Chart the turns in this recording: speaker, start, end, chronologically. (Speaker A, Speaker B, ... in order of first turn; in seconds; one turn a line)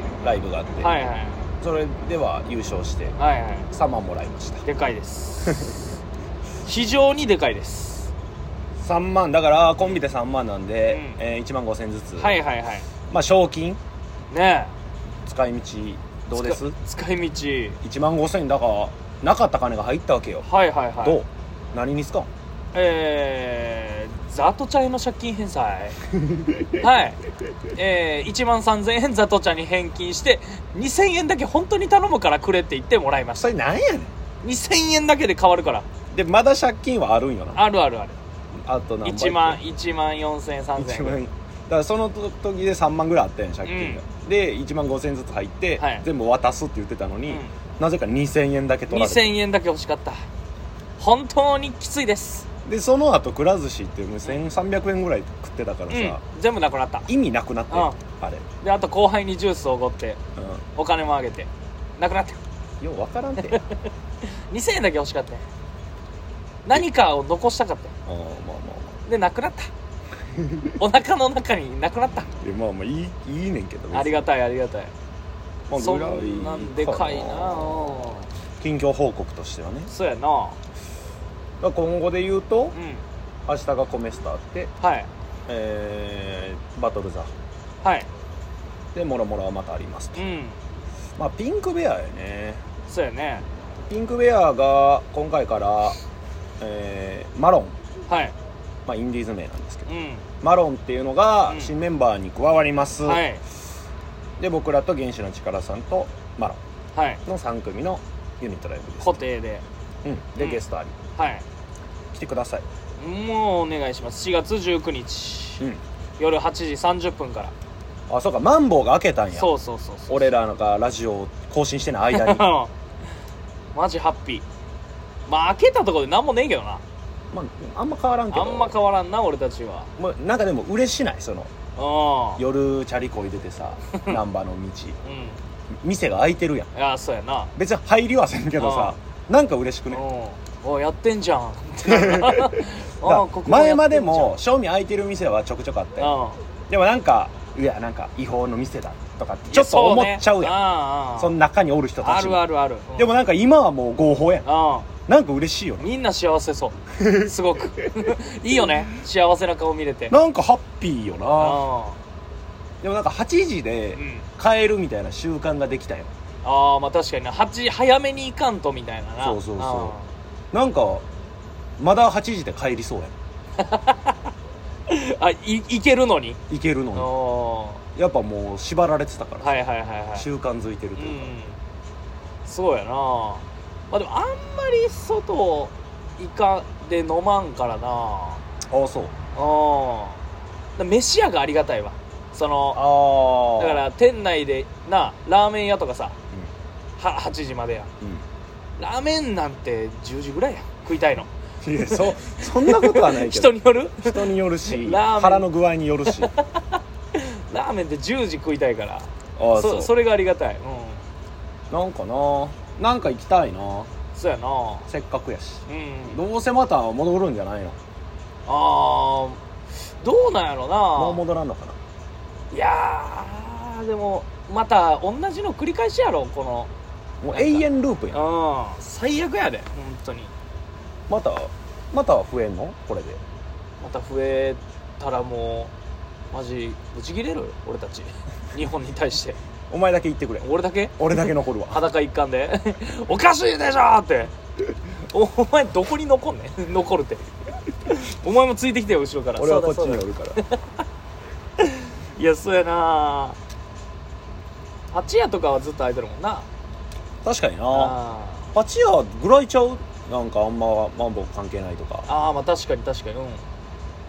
Speaker A: 0.2-0.9
Speaker B: 0.8-1.5
Speaker A: 1.6-3.2
Speaker B: 3.2-3.7
Speaker A: 3.7-4.6
Speaker B: 4.6-5.8
Speaker A: 5.5-5.8
Speaker B: 6.7-8.1
Speaker A: 8.8-12.4
Speaker B: 10.9-11.2
Speaker B: 12.2-12.9
Speaker A: 13.1-13.8
Speaker B: 14.3-14.7
Speaker A: 15.2-16.8
Speaker B: 16.3-17.8
Speaker A: 17.8-20.5
Speaker B: 20.4-21.2
Speaker A: 21.0-22.3
Speaker B: 22.7-26.0
Speaker B: 26.8-27.2
Speaker B: 27.8-33.5
Speaker A: 33.4-34.1
Speaker B: 34.4-35.9
Speaker A: 36.1-37.7
Speaker B: 37.5-38.2
Speaker A: 38.6-39.6
Speaker B: 39.0-41.2
Speaker A: 40.8-49.4
Speaker B: 43.6-44.0
Speaker B: 45.8-46.0
Speaker B: 47.3-47.5
Speaker B: 48.9-50.2
Speaker B: 51.0-52.5
Speaker A: 52.7-56.2
Speaker B: 55.9-57.1
Speaker A: 57.1-58.5
Speaker B: 57.7-58.0
Speaker B: 58.6-60.2
Speaker A: 60.4-60.6
Speaker B: 60.8-62.4
Speaker A: 62.8-63.6
Speaker B: 63.5-63.8
Speaker B: 64.3-65.4
Speaker B: 66.7-67.9
Speaker A: 68.1-69.0
Speaker B: 69.1-69.7
Speaker A: 70.3-70.7
Speaker B: 70.8-72.3
Speaker A: 72.4-74.2
Speaker B: 73.9-74.9
Speaker A: 75.7-77.9
Speaker B: 75.8-78.3
Speaker A: 78.6-79.9
Speaker B: 79.9-80.6
Speaker A: 81.6-82.8
Speaker B: 82.7-83.0
Speaker A: 83.5-84.7
Speaker B: 84.8-85.1
Speaker A: 85.5-87.3
Speaker B: 87.8-88.1
Speaker A: 88.9-90.2
Speaker B: 90.2-90.6
Speaker A: 91.2-92.6
Speaker B: 92.9-93.5
Speaker A: 93.9-96.0
Speaker A: 96.6-97.7
Speaker B: 98.1-98.4
Speaker A: 98.9-99.9
Speaker B: 99.9-100.2
Speaker A: 100.4-103.2
Speaker B: 103.0-103.4
Speaker A: 104.4-106.6
Speaker B: 106.9-107.2
Speaker A: 107.2-109.2
Speaker B: 109.0-109.6
Speaker A: 110.0-110.9
Speaker B: 111.2-111.4
Speaker A: 112.1-112.7
Speaker B: 113.0-115.7
Speaker B: 116.2-117.5
Speaker A: 118.1-119.5
Speaker B: 119.3-120.3
Speaker A: 120.1-122.5
Speaker B: 122.1-122.7
Speaker B: 123.7-124.4
Speaker B: 125.3-126.8
Speaker A: 127.3-128.8
Speaker B: 128.3-129.9
Speaker A: 130.0-131.5
Speaker B: 131.8-132.4
Speaker A: 132.4-135.0
Speaker B: 135.1-135.4
Speaker A: 135.8-136.7
Speaker B: 136.7-137.5
Speaker A: 137.6-140.0
Speaker B: 138.6-138.9
Speaker B: 139.9-144.3
Speaker A: 141.8-146.2
Speaker B: 146.0-146.4
Speaker A: 146.7-150.6
Speaker B: 149.5-151.3
Speaker A: 151.2-152.4
Speaker B: 152.0-153.1
Speaker A: 152.9-154.5
Speaker B: 154.4-154.9
Speaker A: 155.1-155.9
Speaker B: 155.8-160.2
Speaker A: 157.0-157.9
Speaker A: 160.1-161.6
Speaker B: 161.4-162.0
Speaker A: 162.8-166.1
Speaker B: 163.9-164.3
Speaker B: 166.4-170.1
Speaker A: 169.2-169.9
Speaker A: 170.5-171.0
Speaker A: 171.8-173.1
Speaker B: 173.6-174.2
Speaker B: 174.9-176.4
Speaker A: 176.5-177.1
Speaker B: 176.9-177.8
Speaker A: 177.9-179.6
Speaker B: 179.4-180.2
Speaker A: 180.2-181.3
Speaker B: 181.0-181.6
Speaker B: 182.4-188.4
Speaker A: 188.7-189.1
Speaker B: 189.3-190.2
Speaker B: 190.8-192.8
Speaker A: 192.7-193.8
Speaker B: 193.6-196.2
Speaker B: 197.0-197.9
Speaker B: 198.8-201.3
Speaker A: 201.6-206.3
Speaker B: 201.8-205.5
Speaker B: 206.1-211.0
Speaker A: 209.4-209.9
Speaker A: 211.7-213.9
Speaker B: 214.2-214.9
Speaker A: 214.9-217.8
Speaker B: 215.7-216.2
Speaker B: 218.4-219.4
Speaker B: 220.0-221.2
Speaker A: 220.9-221.8
Speaker B: 222.5-226.7
Speaker A: 227.2-228.2
Speaker B: 227.3-230.3
Speaker A: 231.1-233.2
Speaker B: 233.8-235.7
Speaker B: 236.3-239.4
Speaker A: 239.7-240.5
Speaker B: 240.4-244.3
Speaker A: 241.0-241.8
Speaker B: 245.1-247.3
Speaker B: 247.8-250.6
Speaker A: 249.4-250.4
Speaker B: 251.6-253.4
Speaker B: 254.9-256.4
Speaker A: 257.2-258.0
Speaker B: 257.7-258.5
Speaker A: 258.5-262.1
Speaker B: 262.1-263.4